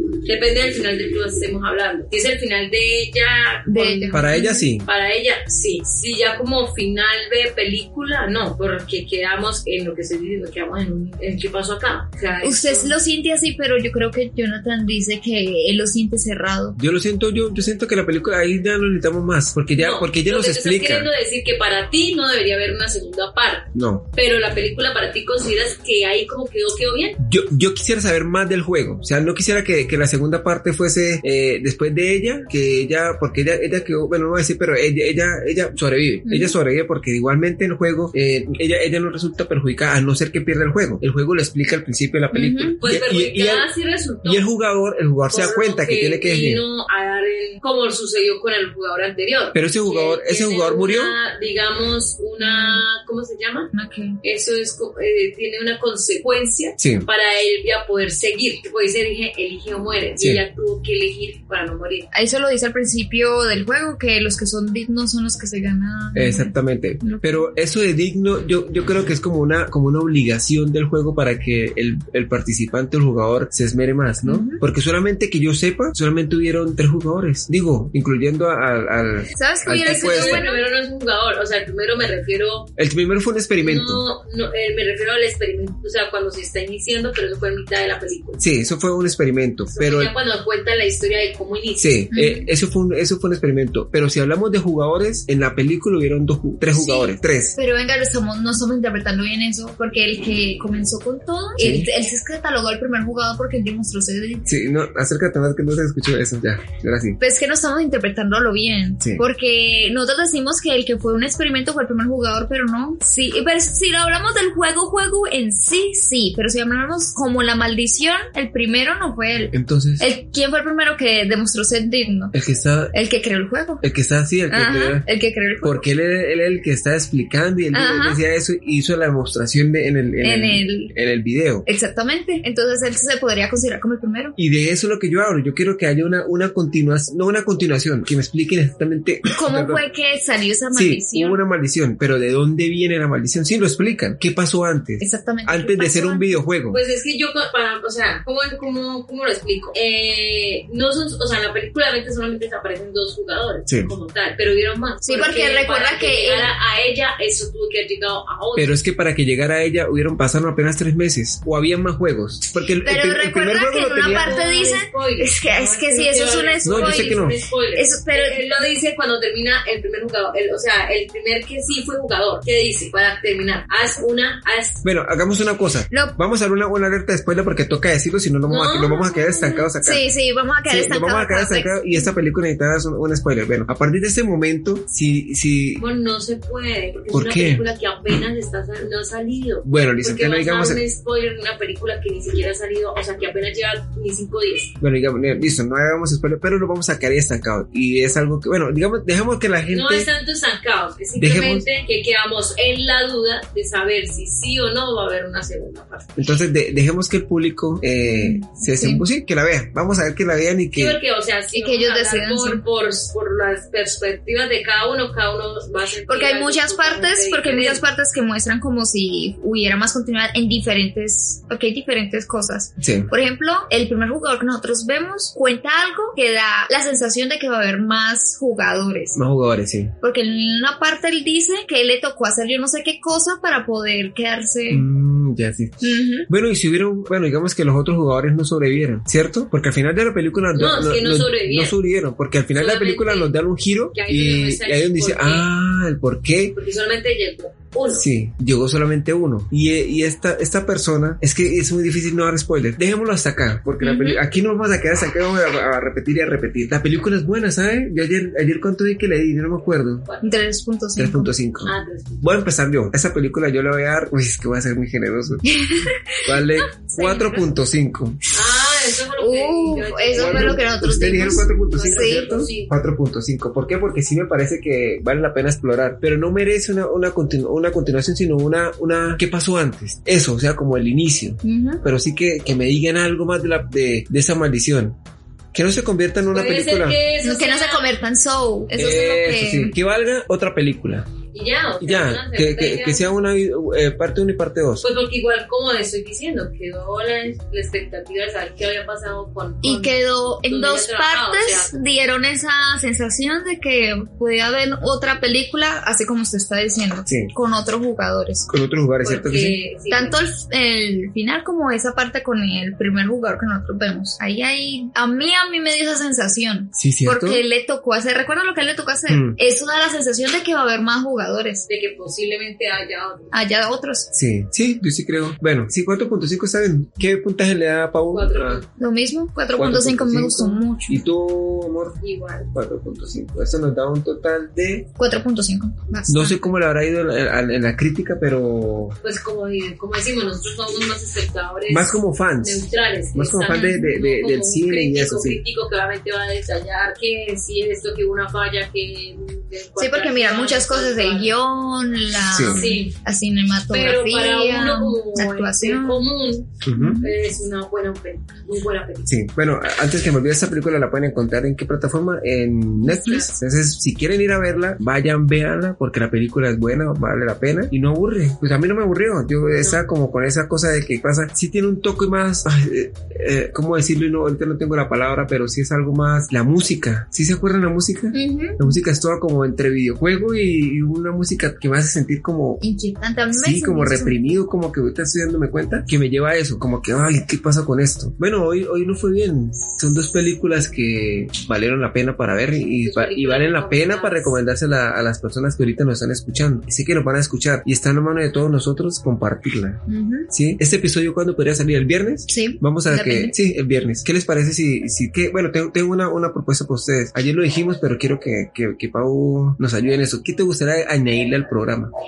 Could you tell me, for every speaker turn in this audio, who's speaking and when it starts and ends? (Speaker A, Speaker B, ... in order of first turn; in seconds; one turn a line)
Speaker A: 0.2-12.9
Speaker B: 3.7-4.7
Speaker C: 4.1-4.9
Speaker B: 12.4-16.8
Speaker C: 16.8-21.1
Speaker A: 19.8-27.2
Speaker C: 23.7-24.1
Speaker C: 27.2-43.7
Speaker B: 36.3-36.6
Speaker B: 42.3-42.8
Speaker A: 42.8-44.5
Speaker C: 44.2-46.6
Speaker A: 45.3-53.7
Speaker C: 49.5-51.2
Speaker B: 52.4-52.9
Speaker B: 53.7-54.2
Speaker A: 54.2-62.1
Speaker C: 56.8-57.1
Speaker B: 62.1-67.5
Speaker C: 66.1-80.4
Speaker B: 74.2-74.6
Speaker B: 79.3-80.6
Speaker A: 79.7-82.7
Speaker C: 82.8-84.0
Speaker A: 83.6-88.4
Speaker C: 88.4-90.1
Speaker A: 89.7-92.0
Speaker C: 91.8-97.6
Speaker B: 92.1-92.5
Speaker B: 96.7-104.5
Speaker C: 101.6-101.9
Speaker C: 104.5-107.2
Speaker B: 107.2-122.3
Speaker C: 119.5-120.1
Speaker C: 122.3-123.0
Speaker B: 122.9-123.8
Speaker C: 123.8-125.1
Speaker B: 124.5-125.8
Speaker C: 125.6-131.7
Speaker B: 127.7-128.2
Speaker B: 130.2-130.9
Speaker B: 131.7-134.3
Speaker C: 134.4-139.8
Speaker B: 139.3-141.4
Speaker C: 140.7-146.8
Speaker B: 145.0-146.3
Speaker A: 146.7-158.8
Speaker C: 153.7-153.9
Speaker B: 155.0-156.5
Speaker C: 158.6-164.4
Speaker B: 162.8-168.4
Speaker A: 163.9-174.8
Speaker C: 166.6-167.4
Speaker C: 174.8-180.1
Speaker A: 178.5-179.6
Speaker B: 179.8-182.1
Speaker C: 180.7-185.8
Speaker A: 185.8-194.7
Speaker C: 187.1-187.6
Speaker C: 189.6-190.8
Speaker C: 194.8-200.1
Speaker A: 199.7-206.3
Speaker C: 201.2-201.7
Speaker C: 206.2-211.0
Speaker B: 208.0-209.0
Speaker A: 210.8-217.8
Speaker B: 211.5-212.6
Speaker B: 216.1-229.2
Speaker C: 222.8-223.1
Speaker C: 229.2-229.9
Speaker B: 230.0-234.9
Speaker C: 234.7-246.6
Speaker B: 235.8-236.3
Speaker A: 240.5-241.8
Speaker A: 242.5-243.3
Speaker A: 243.9-245.5
Speaker A: 246.6-248.1
Speaker C: 247.9-260.1
Speaker B: 253.8-254.2
Speaker A: 260.1-260.4
Speaker B: 260.2-261.3
Speaker C: 261.0-265.5
Speaker A: 261.6-262.3
Speaker B: 265.4-266.4
Speaker C: 266.2-268.2
Speaker A: 266.9-267.4
Speaker A: 268.3-270.7
Speaker B: 269.2-272.3
Speaker C: 270.2-285.0
Speaker A: 271.7-272.7
Speaker B: 281.4-281.8
Speaker C: 285.5-287.0
Speaker A: 286.3-287.9
Speaker B: 287.2-289.7
Speaker C: 288.8-291.1
Speaker A: 291.3-293.1
Speaker C: 291.8-294.9
Speaker A: 294.8-301.8
Speaker B: 299.6-308.5
Speaker C: 308.5-309.6
Speaker A: 309.0-310.2
Speaker B: 309.9-321.7
Speaker C: 316.8-317.4
Speaker C: 319.1-319.4
Speaker A: 321.7-323.3
Speaker B: 323.3-324.1
Speaker C: 324.1-328.6
Speaker A: 328.1-328.7
Speaker B: 328.8-331.0
Speaker C: 329.6-332.0
Speaker A: 332.0-332.5
Speaker C: 332.5-334.9
Speaker B: 335.0-336.5
Speaker C: 336.1-339.0
Speaker A: 339.0-351.3
Speaker C: 341.7-345.4
Speaker B: 343.5-343.9
Speaker B: 349.8-356.1
Speaker C: 352.3-352.6
Speaker A: 352.5-353.0
Speaker A: 353.7-359.1
Speaker C: 356.6-357.0
Speaker B: 356.7-357.1
Speaker C: 359.1-382.6
Speaker B: 362.9-363.3
Speaker B: 378.1-378.8
Speaker B: 382.6-384.4
Speaker C: 383.3-411.9
Speaker A: 392.8-394.4
Speaker B: 399.9-400.3
Speaker B: 402.3-403.4